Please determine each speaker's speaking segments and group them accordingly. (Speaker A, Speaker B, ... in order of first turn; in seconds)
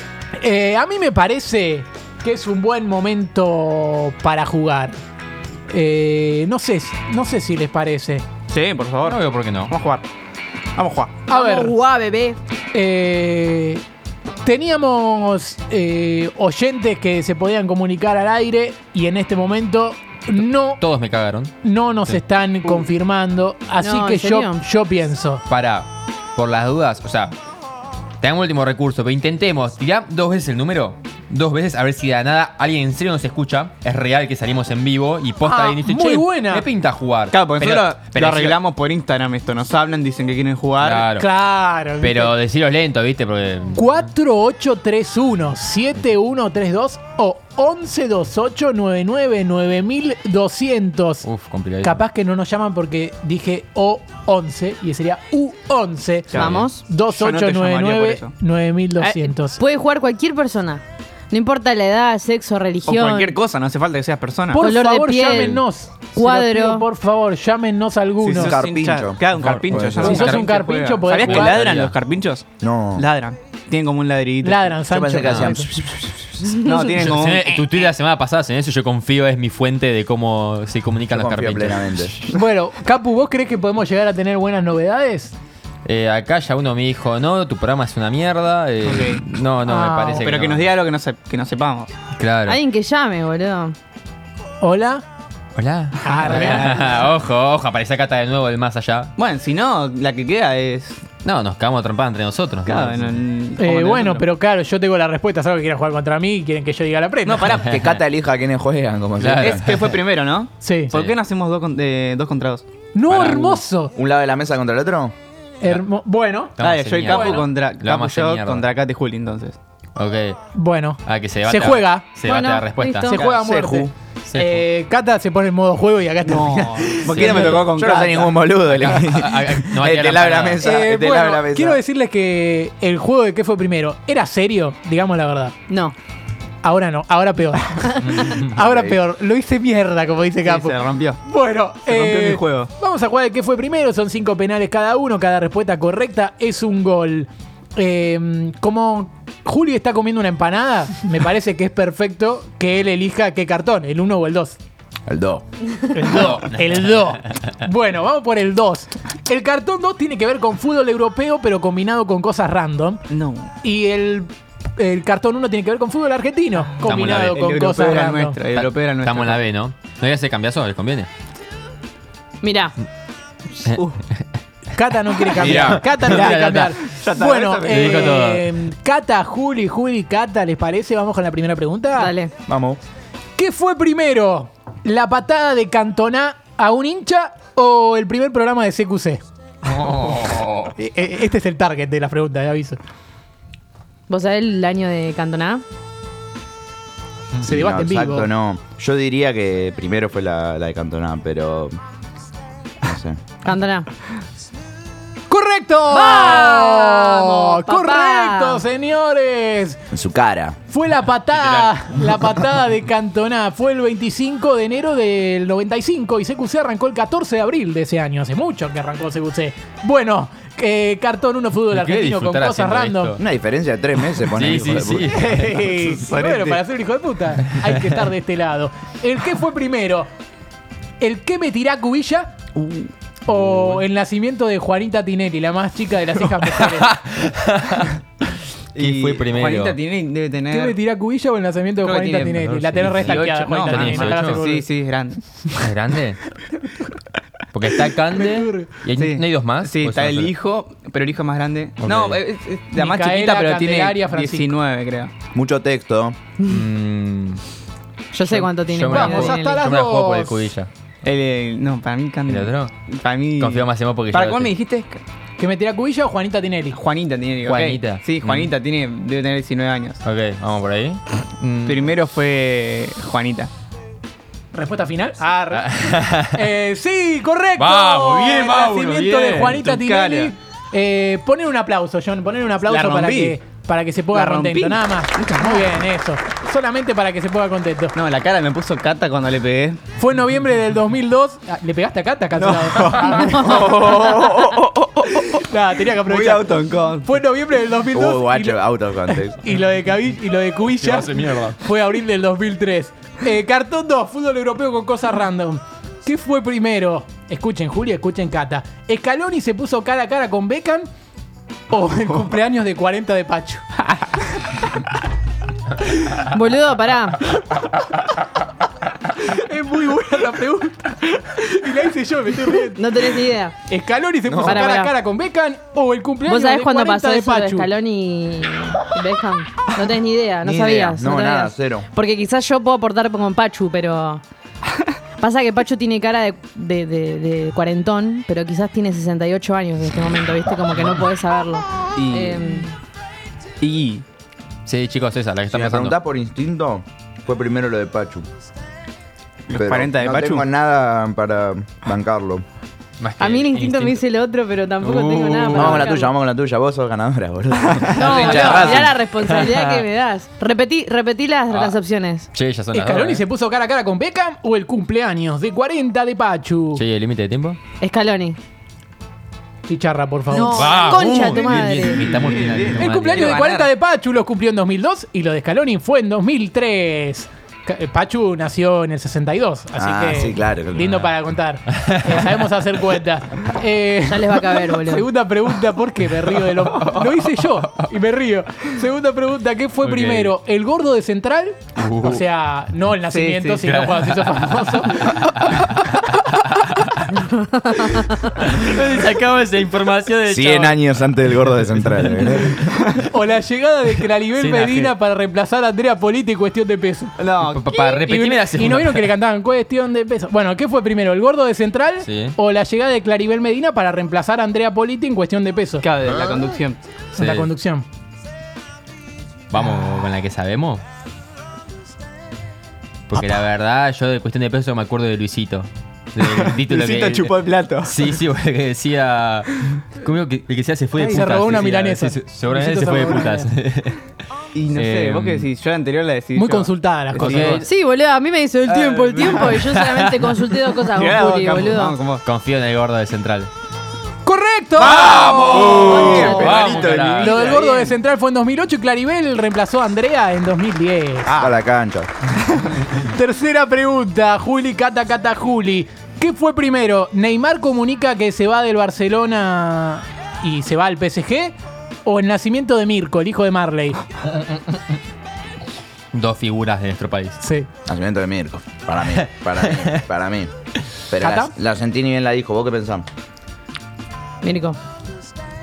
Speaker A: 0.3-5.0, 5.7-8.2, 11.3-11.7, 12.7-13.8, 14.4-20.8, 21.6-25.4, 35.4-36.7, 41.2-42.4, 43.7-51.2, 51.8-59.6, 64.5-68.5, 70.0-71.6, 74.4-75.7, 82.3-85.3, 89.6-90.3, 94.6-95.0, 96.0-96.9, 103.6-107.6, 110.6-111.1, 112.9-113.9, 115.6-116.5, 117.1-117.4, 120.5-122.0, 123.0-127.5, 130.6-135.5, 136.6-154.6, 155.9-163.0, 163.6-168.4, 174.7-182.1, 183.4-189.2, 190.8-192.8, 197.4-198.3, 205.3-209.8, 210.7-223.2, 225.1-230.1, 231.0-232.4, 233.2-237.0, 240.5-244.7, 248.1-248.7, 252.7-254.5, 258.9-260.5, 265.4-266.8, 274.5-287.9, 289.9-293.4, 295.4-310.9, 311.7-313.8, 319.1-322.9, 323.7-327.7, 362.7-366.8, 369.7-371.2, 372.7-395.2, 403.1-407.2, 408.0-415.9, 417.1-417.8, 430.9-433.5, 436.3-437.6, 444.2-445.2, 447.1-451.3, 452.9-461.5, 462.0-464.0, 467.4-467.7, 471.2-471.5
Speaker B: 8.5-10.1, 10.7-11.2, 37.3-41.1, 56.3-58.3, 62.9-64.6, 68.2-74.8, 76.5-77.9, 88.8-89.2, 90.2-91.9, 96.1-97.1, 99.2-101.1, 102.6-104.3, 107.2-107.8, 109.3-112.7, 116.6-119.6, 126.2-128.5, 140.4-141.2, 141.8-142.7, 163.1-163.5, 166.8-169.4, 173.6-174.0, 175.3-178.3, 225.6-226.6, 232.6-232.9, 238.7-240.8, 241.8-245.4, 248.9-255.1, 261.0-265.0, 266.7-270.0, 271.6-273.5, 278.4-280.3, 282.7-283.4, 284.1-285.8, 287.9-289.8, 292.3-295.4, 295.9-297.1, 341.9-342.7, 343.6-344.0, 349.5-350.5, 357.7-358.9, 371.8-373.5, 386.6-387.2, 393.1-393.8, 407.2-408.0, 415.8-416.8, 426.2-428.1, 434.5-437.6, 438.7-439.6, 440.9-442.2, 444.9-447.9, 451.2-451.5, 452.4-452.8
Speaker C: 9.0-9.7, 20.4-21.5, 25.5-27.4, 28.2-38.6, 40.8-41.3, 42.0-44.0, 51.2-52.0, 56.4-56.6, 69.4-70.5, 71.1-71.9, 77.0-82.3, 85.8-90.7, 92.1-92.6, 95.5-99.1, 101.2-103.2, 107.6-108.0, 109.2-110.0, 113.1-113.4, 116.6-118.7, 120.0-120.4, 121.0-123.2, 124.3-124.6, 127.1-127.7, 128.6-130.7, 138.1-138.5, 166.8-167.2, 168.5-171.1, 175.4-176.7, 177.7-178.5, 189.6-190.7, 211.3-211.7, 221.7-223.2, 224.3-225.7, 233.3-233.8, 236.8-237.9, 238.7-239.8, 242.4-244.4, 245.6-246.2, 247.5-250.3, 251.8-252.2, 256.4-257.4, 258.2-260.7, 262.3-262.7, 263.4-264.5, 267.4-268.5, 270.0-272.0, 275.6-276.4, 277.6-278.8, 300.8-301.6, 344.6-345.9, 353.0-354.0, 354.8-355.8, 359.2-359.8, 361.5-361.8, 362.3-363.2, 366.8-367.6, 370.4-373.7, 381.8-382.3, 389.8-390.3, 391.8-392.2, 393.7-397.2, 398.3-402.5, 404.3-404.9, 407.4-409.1, 412.0-412.4, 417.1-417.5, 419.5-420.8, 423.1-434.0, 434.7-435.5, 437.2-437.7, 439.2-440.2, 442.2-443.5, 444.8-447.4, 466.1-467.4, 469.6-470.0
Speaker D: 11.3-12.4, 23.8-24.6, 56.3-56.8, 59.0-63.4, 64.6-65.6, 66.1-66.8, 76.4-77.0, 92.5-93.8, 122.2-123.2, 135.7-135.9, 172.4-172.8, 181.9-182.3, 194.1-195.6, 203.4-203.9, 205.9-208.6, 258.1-259.6, 316.1-317.2, 322.7-323.6, 324.4-324.9, 326.2-334.2, 335.2-342.7, 353.2-356.1, 357.9-362.3, 367.8-368.4, 370.3-372.2, 384.1-385.1, 397.3-398.0, 437.6-441.9, 445.8-446.8, 474.4-474.8
Speaker E: 68.3-70.2, 72.6-73.0, 74.9-76.3, 81.1-82.1, 107.7-109.6, 113.9-115.1, 123.2-123.9, 127.6-131.8, 138.6-139.0, 155.1-155.4, 182.5-182.8, 197.4-201.8, 202.8-203.2, 209.9-210.6, 223.2-225.2, 255.3-256.2, 293.4-295.2, 297.9-299.4, 324.3-324.6, 330.4-331.9, 345.5-348.2, 349.5-352.4, 355.5-358.9, 379.8-381.0, 400.3-402.7, 445.4-447.6, 451.3-452.1, 467.9-470.5, 471.1-473.0